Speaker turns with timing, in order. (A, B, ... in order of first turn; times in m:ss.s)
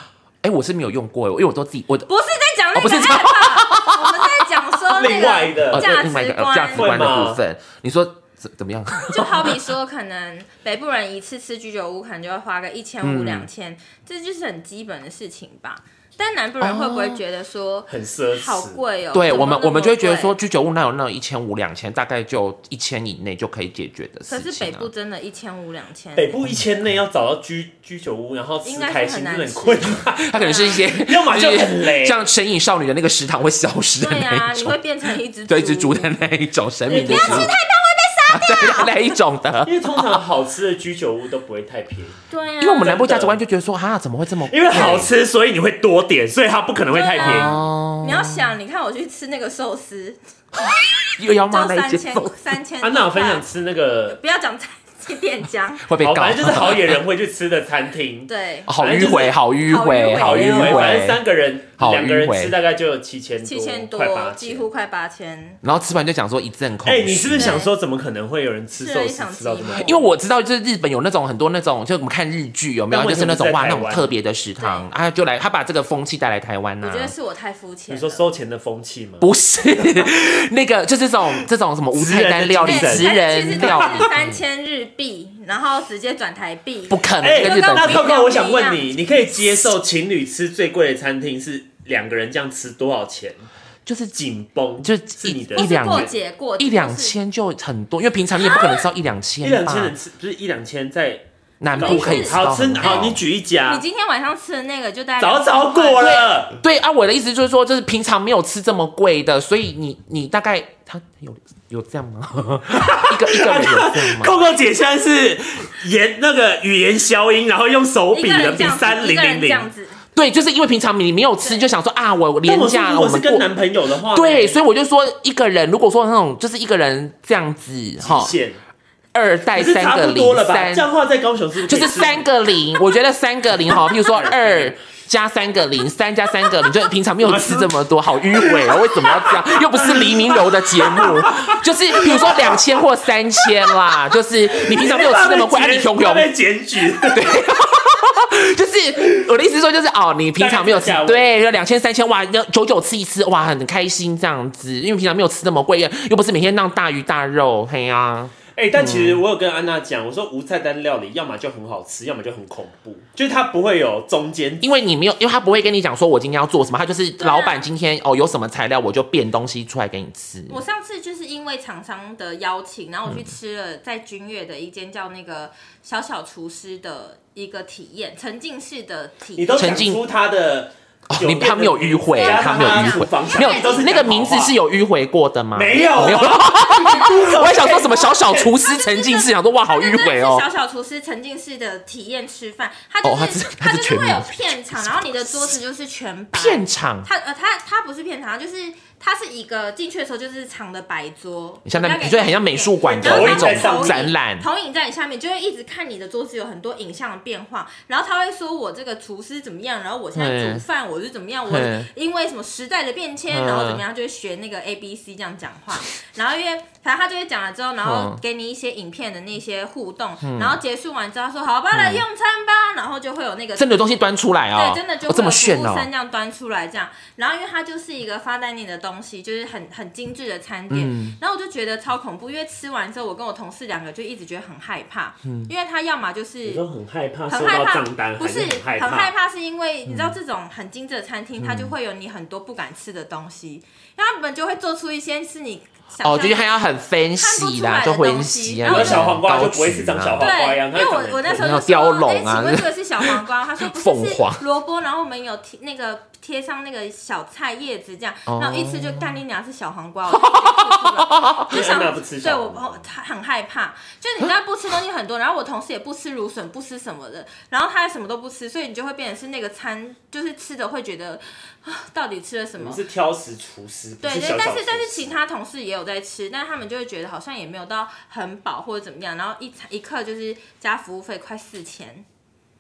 0:00.4-0:02.1 A
0:02.1-0:07.0 B
0:02.8-0:04.3 A
0:05.0-0:05.9 C
0:05.7-0:09.6 A
0:06.7-0:07.4 C
0:09.1-0:20.4 B
0:13.0-0:13.5 A
0:16.6-0:17.2 A
0:17.9-0:18.8 C
0:19.1-0:24.9 A
0:24.3-0:26.4 B
0:26.2-0:32.2 C
0:28.6-0:30.9 B
0:30.2-0:34.8 A
0:34.0-0:36.1 B
0:35.5-0:37.5 A
0:36.9-0:37.5 C
0:36.9-0:39.0 B
0:38.3-0:40.2 A
0:39.6-0:42.2 C
0:42.3-0:43.0 B
0:42.6-0:45.1 A
0:42.8-0:43.4 C
0:44.5-0:47.6 C
0:46.9-0:50.2 B
0:47.2-0:48.5 A
0:51.2-0:52.4 A
0:51.3-0:53.5 B
0:52.8-0:54.2 C
0:54.1-0:55.9 B
0:55.8-0:57.0 A
0:56.0-0:59.4 C
0:58.3-0:58.7 B
0:58.7-1:01.2 A
0:59.6-1:01.1 B
1:00.1-1:04.7 C
1:01.8-1:02.6 A
1:03.4-1:05.6 B
1:05.6-1:07.6 A
1:06.8-1:09.9 C
1:07.4-1:07.7 B
1:08.8-1:10.2 B
1:09.7-1:17.1 A
1:12.9-1:14.1 C
1:14.6-1:14.9 B
1:16.8-1:18.2 B
1:17.9-1:19.3 C
1:19.2-1:24.4 A
1:21.9-1:24.1 C
1:22.6-1:28.9 B
1:26.9-1:28.1 A
1:27.2-1:33.4 C
1:33.9-1:34.2 A
1:34.2-1:36.1 C
1:34.8-1:39.9 A
1:35.6-1:37.2 B
1:38.4-1:38.9 B
1:39.4-1:43.8 C
1:41.6-1:43.2 A
1:41.7-1:46.3 B
1:45.2-1:46.6 C
1:46.0-1:54.4 A
1:52.7-1:59.7 C
1:58.1-2:00.0 B
2:00.2-2:03.4 A
2:01.4-2:01.7 B
2:02.4-2:04.6 C
2:04.1-2:08.3 A
2:08.0-2:08.6 C
2:09.1-2:10.9 A
2:09.5-2:12.3 C
2:11.7-2:26.3 A
2:13.7-2:14.8 C
2:17.2-2:22.8 C
2:23.4-2:23.8 C
2:24.5-2:27.3 C
2:27.1-2:39.2 A
2:30.4-2:31.3 C
2:38.5-2:44.7 C
2:44.6-2:50.6 A
2:47.2-2:47.6 B
2:50.5-2:59.7 B
2:59.4-3:04.6 C
2:59.6-3:00.0 A
3:01.1-3:10.5 A
3:02.1-3:04.2 B
3:05.5-3:08.6 C
3:05.9-3:07.4 B
3:08.6-3:43.8 B
3:13.0-3:14.3 A
3:16.3-3:17.1 A
3:21.7-3:24.4 A
3:23.0-3:24.0 C
3:30.2-3:30.6 A
3:31.5-3:31.9 A
3:33.3-3:33.8 A
3:37.8-3:38.2 A
3:40.2-3:40.6 A
3:41.7-3:42.0 A
3:43.6-3:45.9 A
3:44.5-3:56.6 B
3:50.7-3:51.2 A
3:55.2-3:55.5 A
3:56.4-3:59.1 C
3:57.3-4:09.2 B
3:59.9-4:00.2 A
4:01.4-4:01.8 A
4:06.0-4:10.3 A
4:08.6-4:11.5 C
4:10.2-4:32.8 B
4:11.4-4:14.4 A
4:18.3-4:19.2 A
4:20.1-4:21.6 A
4:21.5-4:22.8 C
4:32.6-4:35.2 C
4:34.0-4:42.0 B